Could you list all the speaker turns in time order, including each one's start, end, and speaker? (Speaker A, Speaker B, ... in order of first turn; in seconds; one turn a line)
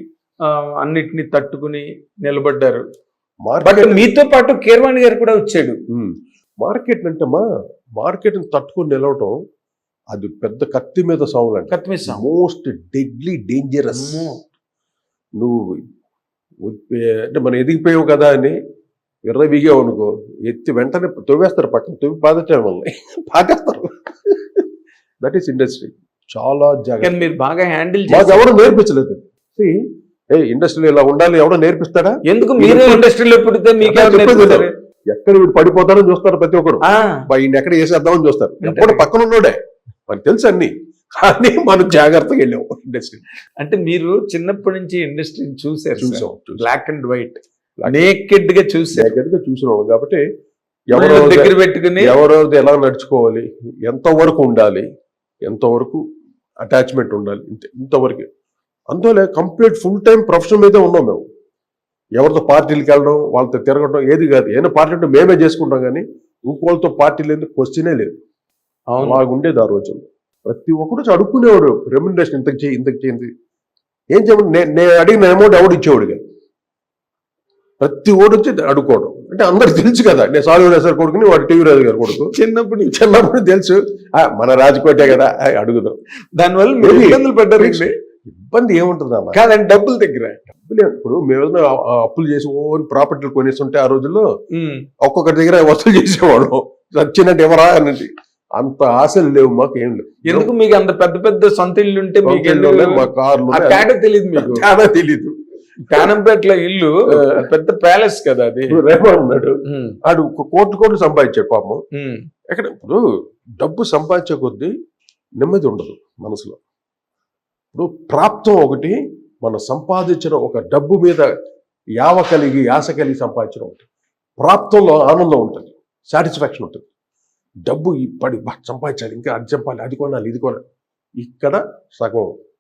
Speaker A: 0.4-2.8
Speaker B: 3.4-4.1
Speaker A: 3.6-5.8
Speaker B: 5.9-7.5
Speaker B: 8.0-9.4
Speaker B: 10.1-14.3
Speaker A: 11.7-12.2
Speaker A: 13.9-14.4
Speaker B: 15.4-15.8
Speaker B: 16.6-18.6
Speaker B: 19.2-24.6
Speaker B: 25.2-27.1
Speaker A: 27.0-28.5
Speaker B: 28.1-29.8
Speaker B: 30.3-33.1
Speaker A: 32.2-34.7
Speaker B: 33.8-43.2
Speaker A: 36.8-37.2
Speaker A: 38.6-39.1
Speaker A: 43.6-49.2
Speaker B: 46.0-46.6
Speaker B: 48.9-50.2
Speaker B: 50.9-54.9
Speaker A: 50.9-52.2
Speaker B: 55.4-56.0
Speaker B: 56.6-58.2
Speaker B: 58.9-61.2
Speaker B: 62.1-68.1
Speaker A: 68.9-69.2
Speaker B: 69.0-73.3
Speaker B: 74.1-76.2
Speaker B: 77.8-82.3
Speaker A: 82.3-83.1
Speaker B: 82.9-86.0
Speaker A: 86.3-87.9
Speaker B: 86.8-89.4
Speaker A: 89.3-90.4
Speaker B: 90.5-94.2
Speaker A: 94.5-94.8
Speaker B: 95.0-100.5
Speaker A: 100.2-104.7
Speaker B: 102.2-105.3
Speaker A: 105.9-108.8
Speaker B: 107.1-107.4
Speaker B: 108.7-111.8
Speaker A: 109.7-110.0
Speaker A: 112.0-112.2
Speaker B: 112.5-113.0
Speaker B: 113.6-114.7
Speaker B: 115.4-116.6
Speaker B: 117.7-121.3
Speaker B: 122.0-123.8
Speaker B: 124.4-126.8
Speaker B: 127.7-130.6
Speaker B: 131.2-132.3